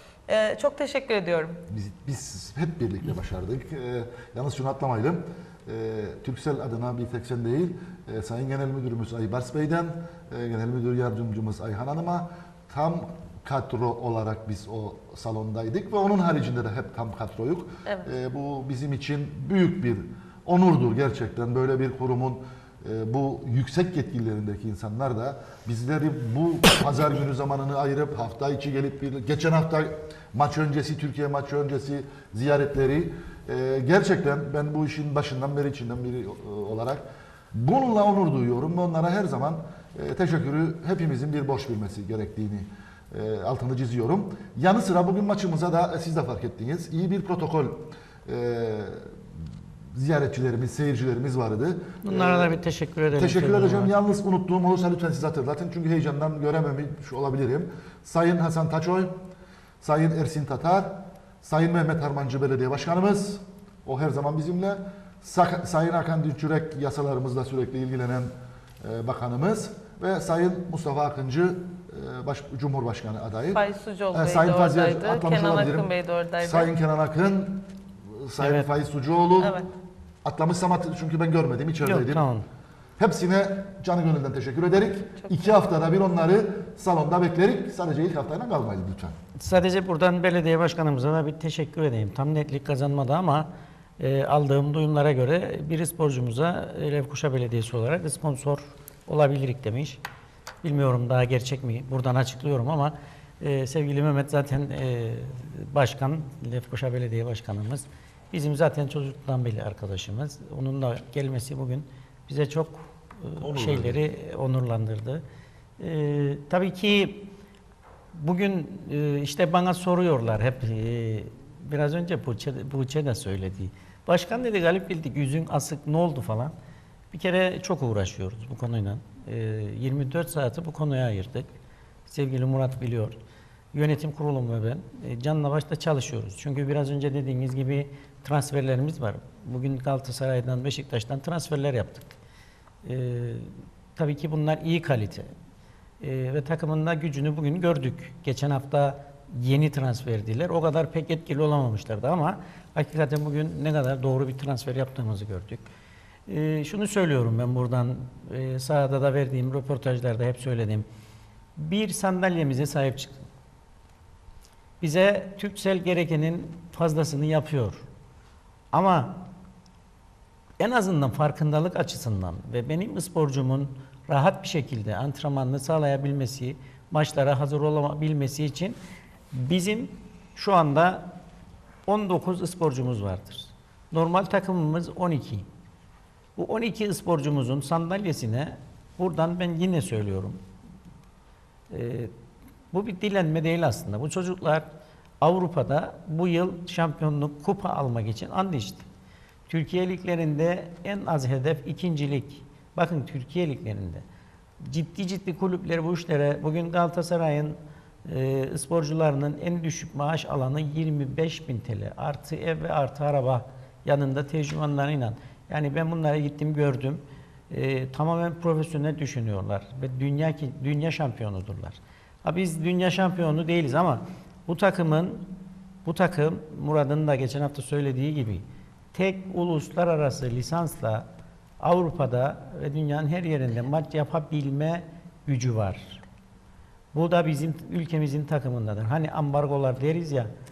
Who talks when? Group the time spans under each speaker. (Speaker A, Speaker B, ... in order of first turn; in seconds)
Speaker A: 0.3-1.6, 73.5-76.7, 79.4-79.7, 85.2-85.5
Speaker B: 1.7-49.1, 49.9-52.5, 53.1-59.1, 59.8-68.3, 68.8-73.6, 74.1-75.9, 76.4-79.6, 80.2-82.2, 83.0-89.1, 113.4-114.0
Speaker C: 52.0-53.9, 78.4-78.7, 81.8-82.5, 89.4-93.5, 94.0-100.0, 100.6-115.2, 115.8-117.3, 118.1-126.5, 127.1-131.5, 132.1-133.2, 133.7-142.1, 142.8-145.3, 146.0-155.6, 156.3-160.8, 161.6-163.2, 164.8-167.8, 168.7-169.2, 170.6-178.8, 179.3-181.1, 181.8-185.4, 186.3-190.4, 191.7-192.1, 192.7-194.7, 195.2-198.8, 199.5-204.0, 204.6-225.3, 225.8-231.1, 231.6-236.0, 236.9-240.3